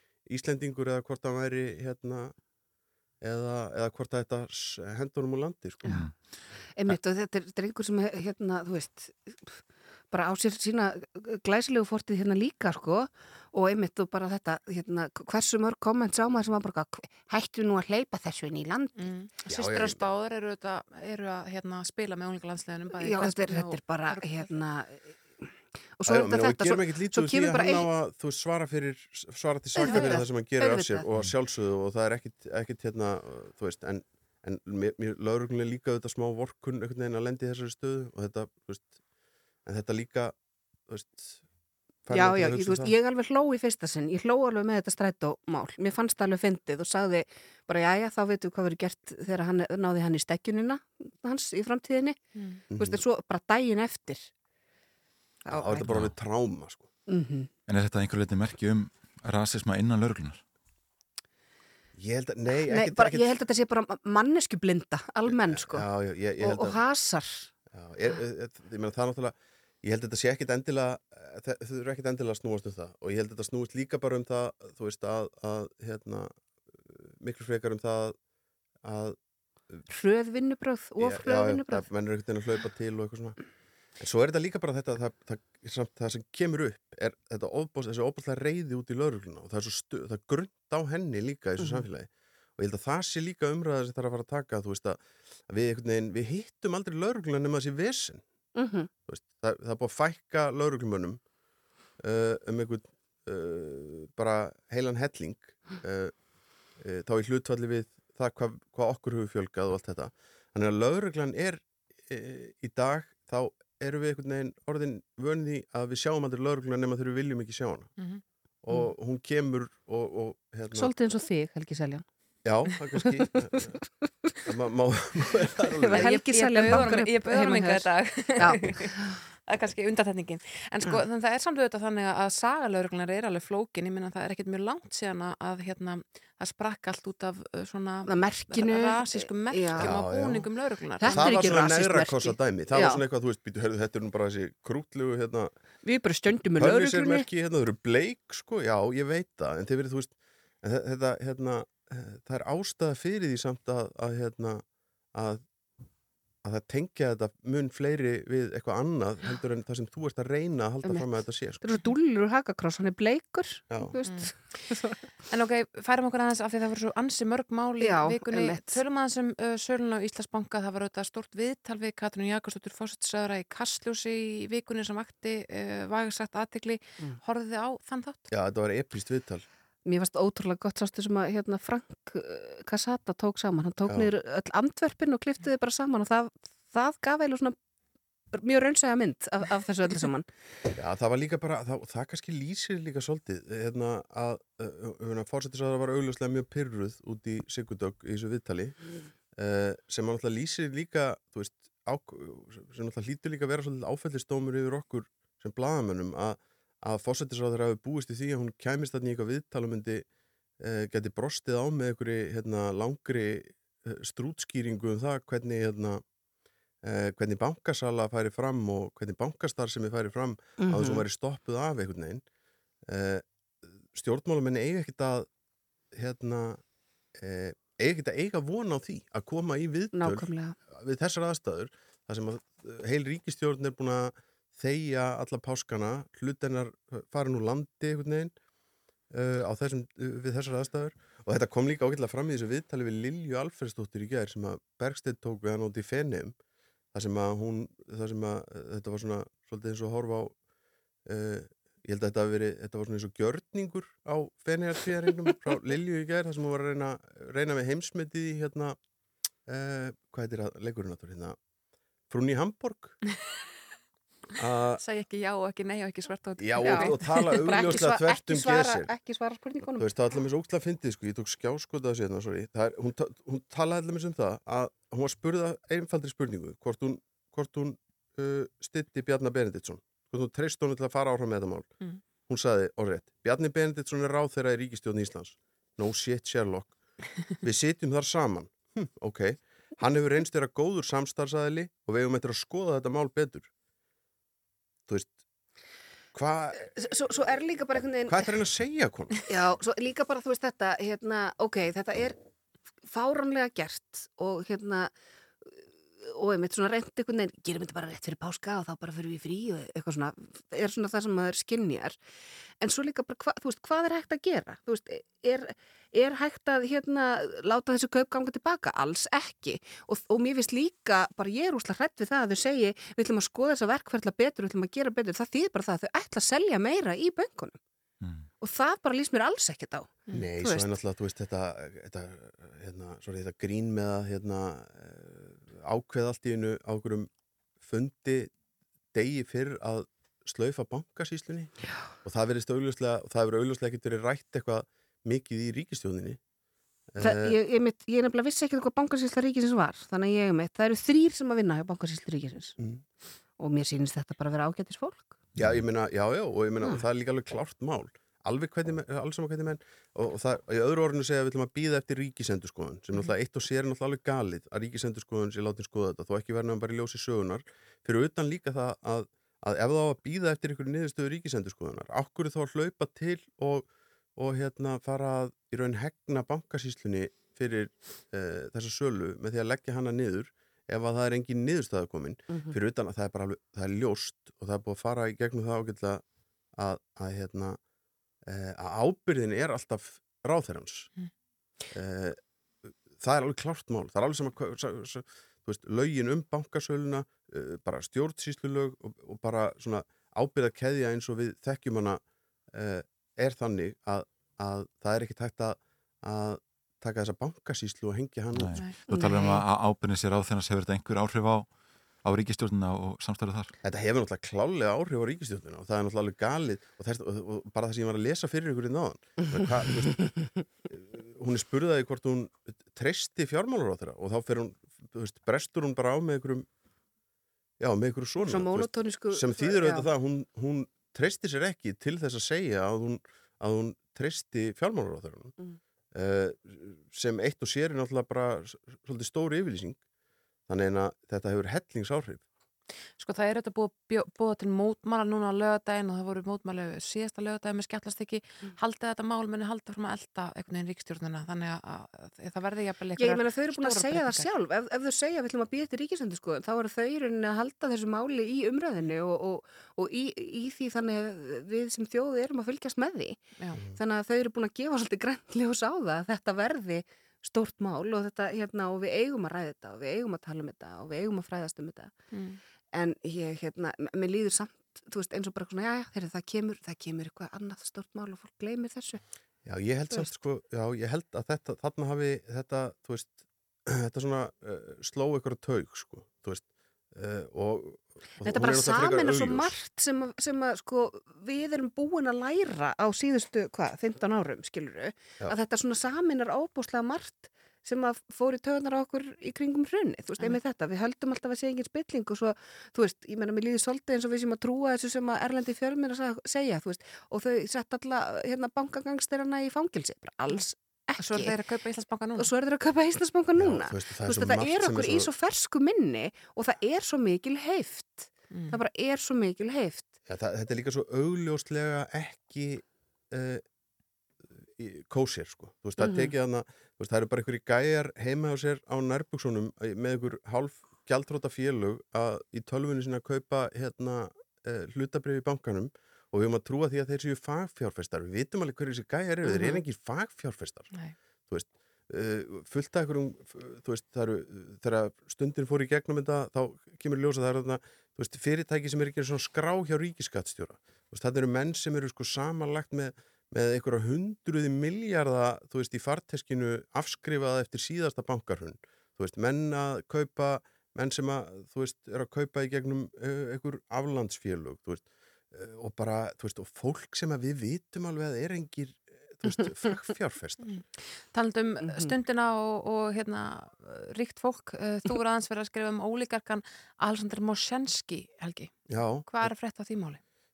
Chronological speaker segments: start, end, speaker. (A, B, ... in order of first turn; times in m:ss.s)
0:00.2-0:02.3 A
0:03.2-0:06.0 A
0:05.8-0:06.1 B
0:05.9-0:06.1 C
0:06.7-0:19.0 B
0:19.0-0:24.5 D
0:19.4-0:20.1 A
0:22.9-0:27.9 B
0:26.0-0:38.9 A
0:29.8-0:30.2 B
0:29.8-0:31.1 D
0:39.6-0:40.3 A
0:40.9-0:41.4 A
0:42.0-0:42.9 A
0:42.1-0:52.2 B
0:52.7-0:53.0 A
0:52.8-0:54.3 B
0:55.5-0:55.9 B
0:55.5-0:56.9 A
0:57.1-0:57.5 B
0:57.7-1:00.4 C
1:02.0-1:03.4 A
1:02.7-1:05.8 B
1:05.3-1:06.8 A
1:06.4-1:07.5 B
1:07.7-1:16.3 A
1:16.8-1:18.2 A
1:18.8-1:19.2 A
1:19.9-1:21.8 B
1:21.0-1:23.4 A
1:24.0-1:38.2 A
1:38.6-1:38.9 B
1:39.0-1:41.2 A
1:42.0-1:46.1 A
1:46.8-1:57.9 A
1:58.0-1:58.2 D
1:58.6-2:00.9 A
2:00.7-2:02.0 B
2:02.4-2:03.8 A
2:03.0-2:04.3 B
2:04.4-2:06.0 A
2:05.8-2:09.1 B
2:05.9-2:21.6 D
2:18.1-2:20.0 B
2:19.7-2:20.4 A
2:21.0-2:23.0 B
2:21.1-2:25.5 A
2:25.8-2:27.2 B
2:26.5-2:34.6 A
2:35.1-2:35.4 A
2:36.4-2:41.6 A
2:41.6-2:45.0 B
2:43.7-2:44.0 A
2:44.0-2:44.3 D
2:45.3-2:58.3 D
2:47.8-2:48.8 B
2:58.3-2:59.4 A
2:59.8-3:07.6 B
3:03.9-3:04.1 A
3:08.3-3:10.3 B
3:10.8-3:18.8 A
3:19.4-3:30.0 A
3:30.6-3:36.0 A
3:36.8-3:42.2 A
3:40.6-3:41.0 B
3:42.9-3:43.2 A
3:43.8-3:45.3 A
3:45.9-3:46.6 A
3:47.2-3:58.3 A
3:49.9-3:50.6 B
3:59.1-4:06.3 A
4:06.9-4:10.3 A
4:11.0-4:18.8 A
4:19.5-4:21.4 A
4:22.1-4:23.0 A
4:24.4-4:24.8 A
4:24.8-4:27.7 D
4:26.4-4:28.9 A
4:26.6-4:29.9 B
4:29.8-4:41.7 A
4:42.2-4:46.8 A
4:47.4-4:53.5 A
4:54.9-4:55.1 A
4:56.1-4:57.2 A
4:56.7-4:58.3 B
4:58.1-4:59.2 A
4:59.3-5:02.2 B
5:02.9-5:04.9 B
5:05.4-5:12.0 B
5:12.6-5:27.6 B
5:28.0-5:28.3 C
5:28.4-5:30.7 B
5:30.1-5:37.1 A
5:37.6-5:38.3 A
5:38.9-5:41.5 A
5:42.0-5:46.2 A
5:46.9-5:47.4 A
5:47.0-5:52.6 B
5:53.4-5:55.2 B
5:55.4-6:26.0 A
6:22.3-6:22.6 B
6:26.6-6:27.6 A
6:28.3-6:30.9 A
6:31.7-6:32.2 A
6:32.9-6:42.0 A
6:42.5-6:48.5 A
6:48.3-6:51.5 C
6:48.5-6:49.4 D
6:52.0-6:53.5 C
6:53.6-7:00.0 A
7:00.7-7:06.4 A
7:07.6-7:15.3 A
7:08.3-7:09.9 B
7:15.9-7:19.8 A
7:20.5-7:22.2 A
7:23.0-7:34.3 D
7:33.0-7:43.2 B
7:43.8-7:51.9 B
7:52.1-7:52.4 D
7:52.7-7:59.0 B
7:59.4-8:09.6 A
8:08.2-8:31.3 B
8:31.0-8:32.3 D
8:32.2-8:39.9 B
8:33.4-8:35.1 A
8:38.3-8:38.6 D
8:40.1-8:43.4 A
8:44.6-9:00.7 A
8:45.8-8:46.1 B
8:59.3-8:59.6 B
9:01.3-9:30.6 A
9:30.4-9:38.5 D
9:31.6-9:31.9 B
9:38.7-9:39.3 A
9:39.0-9:40.0 D